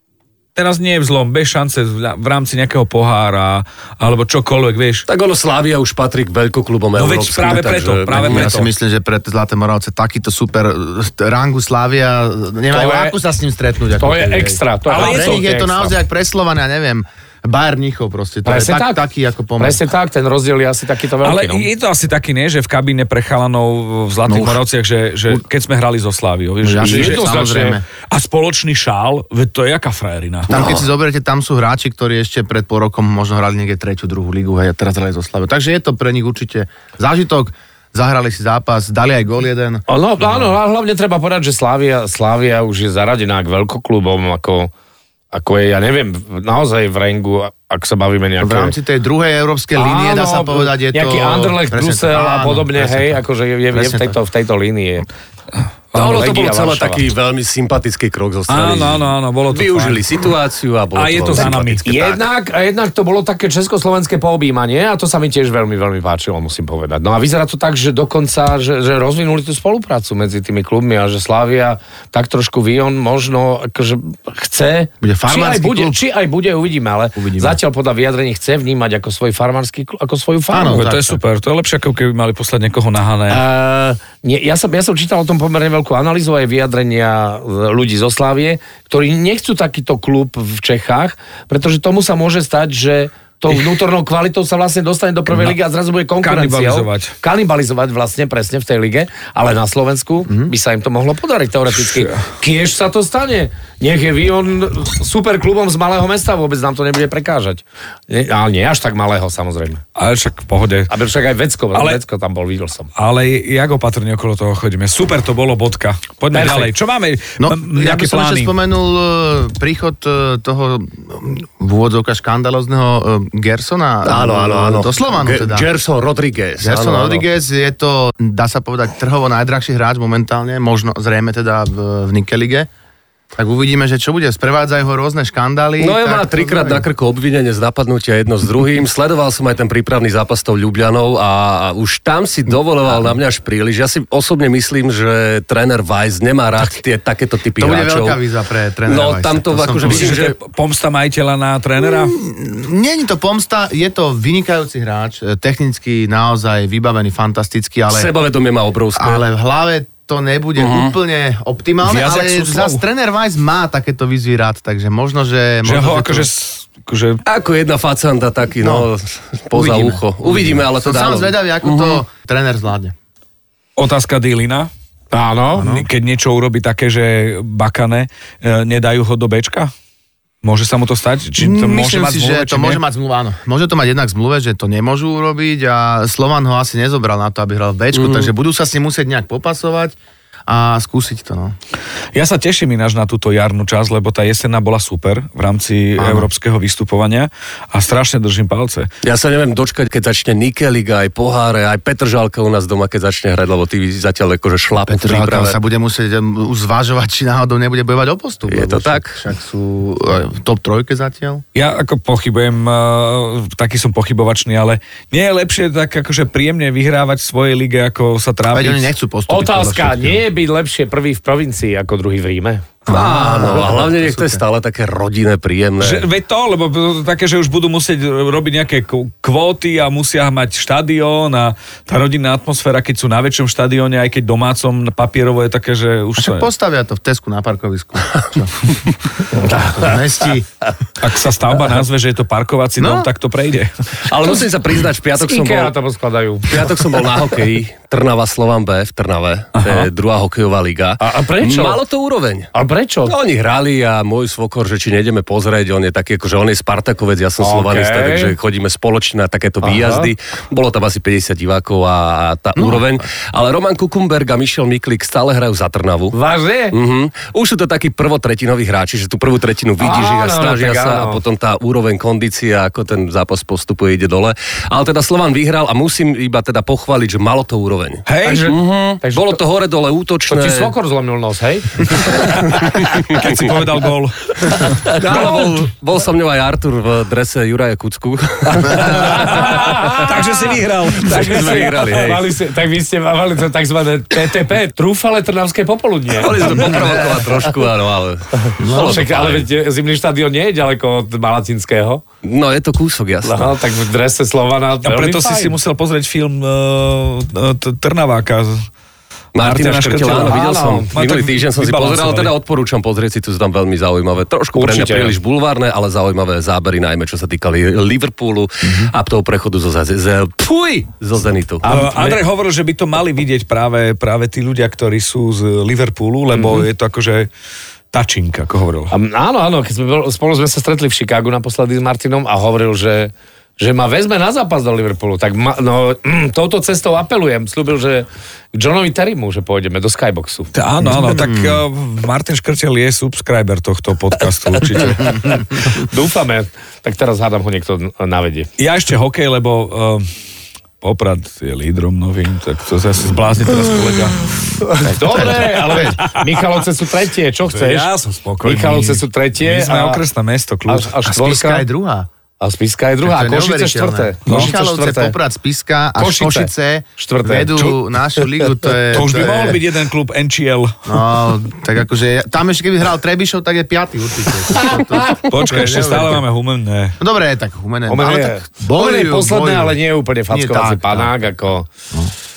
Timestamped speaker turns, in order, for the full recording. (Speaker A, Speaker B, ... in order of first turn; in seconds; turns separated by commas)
Speaker A: 0.6-5.0, Speaker B: 5.1-8.6, Speaker A: 7.0-8.7, Speaker C: 8.2-19.8, Speaker D: 12.7-13.2, Speaker D: 14.0-15.9, Speaker A: 14.9-15.4, Speaker D: 18.4-19.0, Speaker D: 19.6-21.7, Speaker A: 21.2-27.5, Speaker C: 24.2-24.6, Speaker C: 26.6-27.8, Speaker D: 26.8-27.8, Speaker A: 28.1-30.5, Speaker C: 30.5-40.5, Speaker B: 30.5-30.8, Speaker D: 39.9-44.7, Speaker D: 45.3-48.8, Speaker C: 48.4-53.2, Speaker D: 49.8-55.1, Speaker C: 53.7-54.2, Speaker B: 55.9-62.2, Speaker D: 55.9-57.0, Speaker A: 58.5-60.0, Speaker A: 60.9-61.9, Speaker D: 61.3-80.9, Speaker C: 75.0-76.0, Speaker C: 77.2-77.6, Speaker C: 80.5-81.2, Speaker A: 80.7-83.4, Speaker D: 83.3-109.8, Speaker A: 96.2-97.1, Speaker C: 100.3-100.5, Speaker A: 101.8-102.2, Speaker A: 110.0-110.9, Speaker D: 110.9-112.9, Speaker A: 111.7-112.0, Speaker A: 113.0-118.5, Speaker D: 116.3-116.7, Speaker C: 117.4-125.7, Speaker B: 124.0-127.2, Speaker C: 126.6-132.7, Speaker C: 133.3-136.8, Speaker B: 135.8-148.2, Speaker C: 147.6-150.2, Speaker B: 148.8-150.4, Speaker A: 149.8-152.2, Speaker C: 151.8-158.1, Speaker B: 157.9-159.2, Speaker C: 158.9-166.3, Speaker B: 160.6-160.9, Speaker A: 161.8-162.8, Speaker A: 165.6-167.2, Speaker B: 167.2-172.0, Speaker C: 168.6-168.9, Speaker C: 169.5-172.9, Speaker A: 173.8-174.7, Speaker D: 175.1-175.7, Speaker C: 175.6-175.8, Speaker A: 175.6-179.7, Speaker A: 180.4-182.8, Speaker C: 181.4-190.0, Speaker B: 187.9-188.3, Speaker C: 190.5-191.6, Speaker A: 192.1-198.9, Speaker C: 196.0-196.3, Speaker B: 199.0-205.6, Speaker C: 204.9-211.4, Speaker B: 208.5-209.2, Speaker A: 211.5-218.9, Speaker C: 218.5-220.2, Speaker D: 219.3-222.7, Speaker C: 222.8-224.4, Speaker B: 222.9-226.1, Speaker A: 225.8-236.5, Speaker C: 236.2-240.5, Speaker D: 239.3-240.0, Speaker A: 241.0-243.7, Speaker C: 242.8-243.1, Speaker B: 244.0-245.8, Speaker D: 245.1-246.7, Speaker B: 246.4-252.5, Speaker A: 249.6-249.9, Speaker D: 251.0-251.8, Speaker D: 252.5-253.1, Speaker B: 253.1-266.1, Speaker D: 257.4-258.3, Speaker D: 259.6-260.1, Speaker C: 262.6-262.8, Speaker D: 266.1-266.8, Speaker B: 266.7-280.7, Speaker D: 269.8-271.2, Speaker A: 278.1-278.5, Speaker D: 278.2-279.4, Speaker D: 280.3-282.4, Speaker A: 282.3-284.9, Speaker B: 282.5-283.4, Speaker D: 284.6-285.4, Speaker B: 284.9-289.7, Speaker D: 288.5-297.0, Speaker A: 288.8-291.7, Speaker B: 290.9-292.3, Speaker B: 296.1-299.5, Speaker C: 298.6-299.1, Speaker D: 298.7-302.0, Speaker B: 302.2-303.5, Speaker D: 303.2-305.6, Speaker A: 304.8-308.7, Speaker B: 309.3-321.7, Speaker A: 309.4-312.3, Speaker D: 310.0-310.9, Speaker D: 314.5-315.2, Speaker C: 318.6-318.9, Speaker D: 321.6-322.2, Speaker A: 321.6-327.3, Speaker D: 326.4-326.6, Speaker A: 327.9-328.9, Speaker D: 328.9-340.5, Speaker A: 340.5-345.6, Speaker C: 340.8-341.6, Speaker D: 345.6-348.5, Speaker A: 348.6-350.1, Speaker A: 350.8-354.3, Speaker D: 354.6-357.9, Speaker C: 354.9-356.0, Speaker A: 354.9-356.4, Speaker A: 357.5-361.0, Speaker D: 358.4-360.0, Speaker D: 360.7-361.7, Speaker C: 361.1-362.1, Speaker D: 362.4-365.1, Speaker C: 363.0-369.6, Speaker A: 364.3-364.5, Speaker D: 366.0-367.7, Speaker A: 368.9-370.8, Speaker C: 370.9-376.2, Speaker D: 374.6-375.2, Speaker A: 375.3-377.0, Speaker C: 377.0-381.2, Speaker D: 377.9-381.7